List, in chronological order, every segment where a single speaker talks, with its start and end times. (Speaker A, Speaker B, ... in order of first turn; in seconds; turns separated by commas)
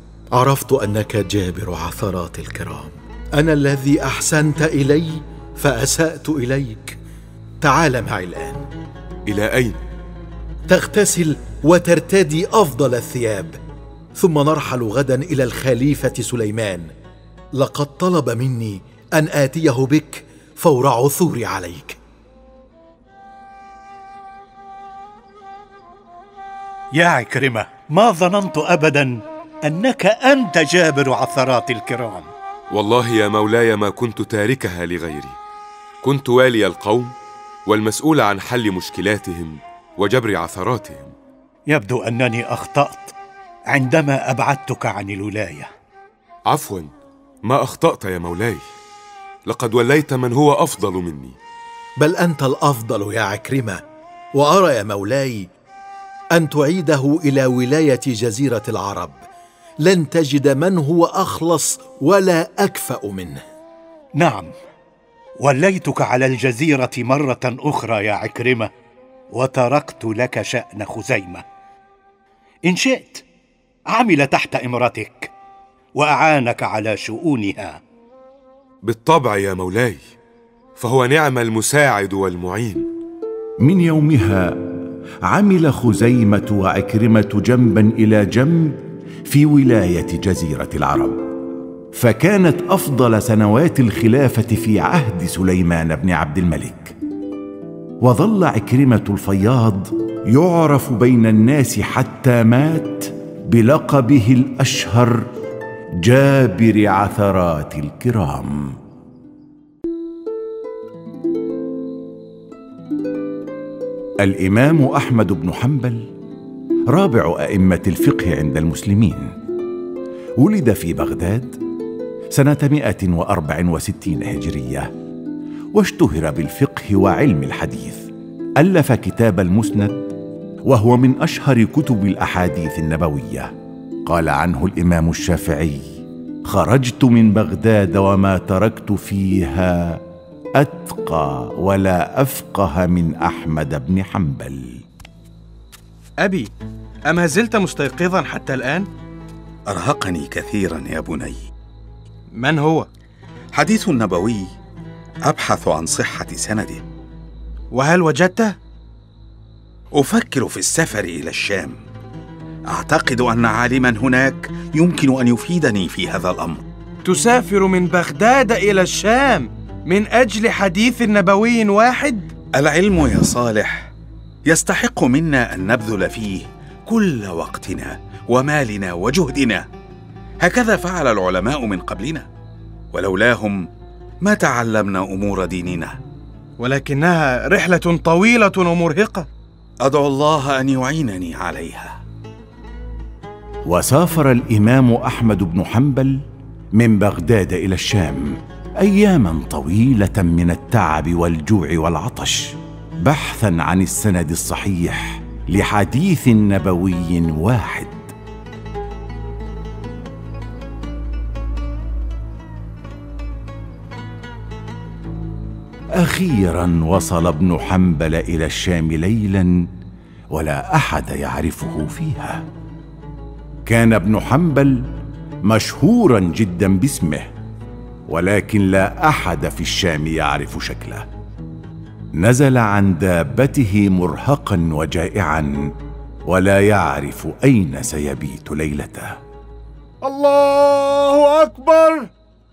Speaker A: 0.3-7.0, Speaker A: 7.6-8.6, Speaker B: 9.3-9.8, Speaker A: 10.7-13.6, Speaker A: 14.2-16.9, Speaker A: 17.6-22.0, Speaker C: 26.9-32.3, Speaker B: 32.7-35.4, Speaker B: 36.0-37.1, Speaker B: 37.7-41.1, Speaker C: 41.7-43.1, Speaker C: 43.7-45.7, Speaker B: 46.5-46.9, Speaker B: 47.5-48.6, Speaker B: 49.5-51.4, Speaker A: 52.0-53.8, Speaker A: 54.4-55.5, Speaker A: 56.4-59.2, Speaker A: 59.8-63.4, Speaker C: 64.2-64.5, Speaker C: 65.4-68.7, Speaker C: 69.3-71.4, Speaker C: 72.7-73.2, Speaker C: 73.9-75.3, Speaker C: 76.0-77.8, Speaker B: 78.8-80.0, Speaker B: 80.8-82.9, Speaker D: 83.6-84.7, Speaker D: 85.2-91.3, Speaker D: 91.9-97.0, Speaker D: 98.0-105.3, Speaker D: 106.0-108.8, Speaker D: 114.2-116.1, Speaker D: 116.9-119.3, Speaker D: 120.4-121.6, Speaker D: 122.3-124.9, Speaker D: 125.8-128.1, Speaker D: 128.6-130.1, Speaker D: 130.7-133.5, Speaker D: 134.1-140.0, Speaker D: 140.6-144.8, Speaker E: 146.2-146.5, Speaker E: 147.1-148.9, Speaker F: 149.7-151.5, Speaker E: 152.3-152.9, Speaker F: 153.5-154.5, Speaker F: 155.2-156.8, Speaker E: 157.7-158.6, Speaker F: 159.9-161.8, Speaker F: 162.7-166.6, Speaker E: 167.0-172.3, Speaker F: 172.6-173.9, Speaker F: 174.5-179.7, Speaker F: 180.4-182.3, Speaker F: 182.9-183.7, Speaker F: 184.2-186.0, Speaker E: 186.6-189.3, Speaker F: 189.8-192.0, Speaker D: 193.7-196.2, Speaker D: 196.8-208.1, Speaker D: 216.0-219.7, Speaker D: 220.3-222.4, Speaker D: 223.7-224.8, Speaker D: 225.5-227.3, Speaker D: 228.1-231.1, Speaker D: 232.2-235.7, Speaker D: 236.3-239.2, Speaker G: 240.1-242.1